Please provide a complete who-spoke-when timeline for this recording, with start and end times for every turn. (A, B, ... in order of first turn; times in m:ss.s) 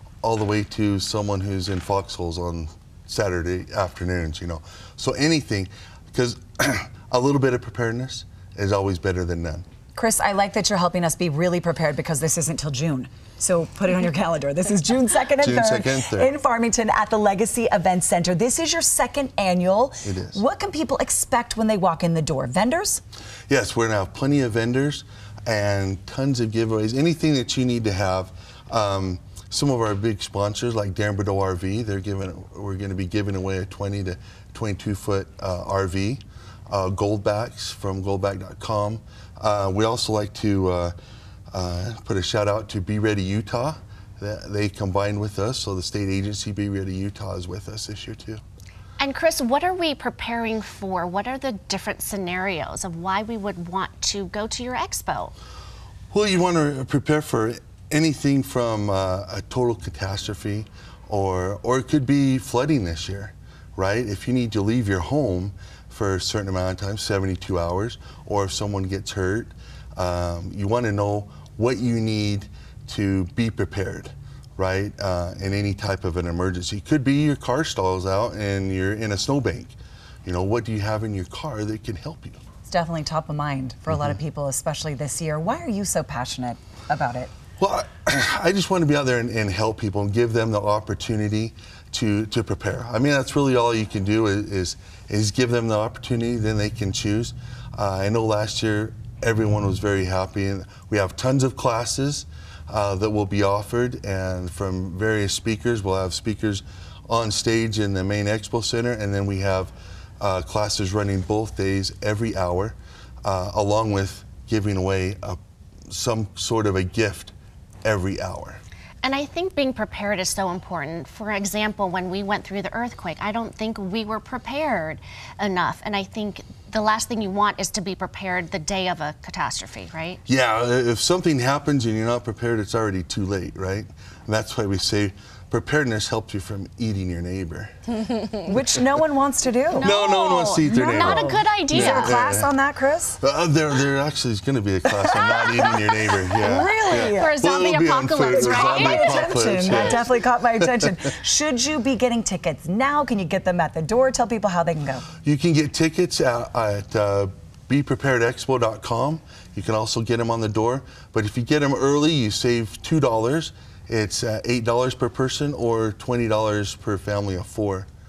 0:00.2-0:09.6 A
0:10.0-0:23.0 B
0:15.4-0:16.3 A
0:20.0-0:20.4 A
0:23.5-0:41.0 A
0:41.5-0:48.4 A
0:49.0-0:55.4 C
0:56.1-1:22.4 A
1:22.7-1:27.3 B
1:27.6-1:55.4 A
1:55.9-1:58.6 A
1:59.0-2:10.2 C
2:10.3-2:17.8 A
2:18.4-2:19.9 B
2:19.8-2:22.2 C
2:19.8-2:22.5 A
2:20.6-2:23.2 B
2:23.2-2:30.9 A
2:25.1-2:26.2 C
2:26.4-2:27.3 B
2:26.8-2:30.0 C
2:28.3-2:35.1 B
2:35.2-2:47.9 A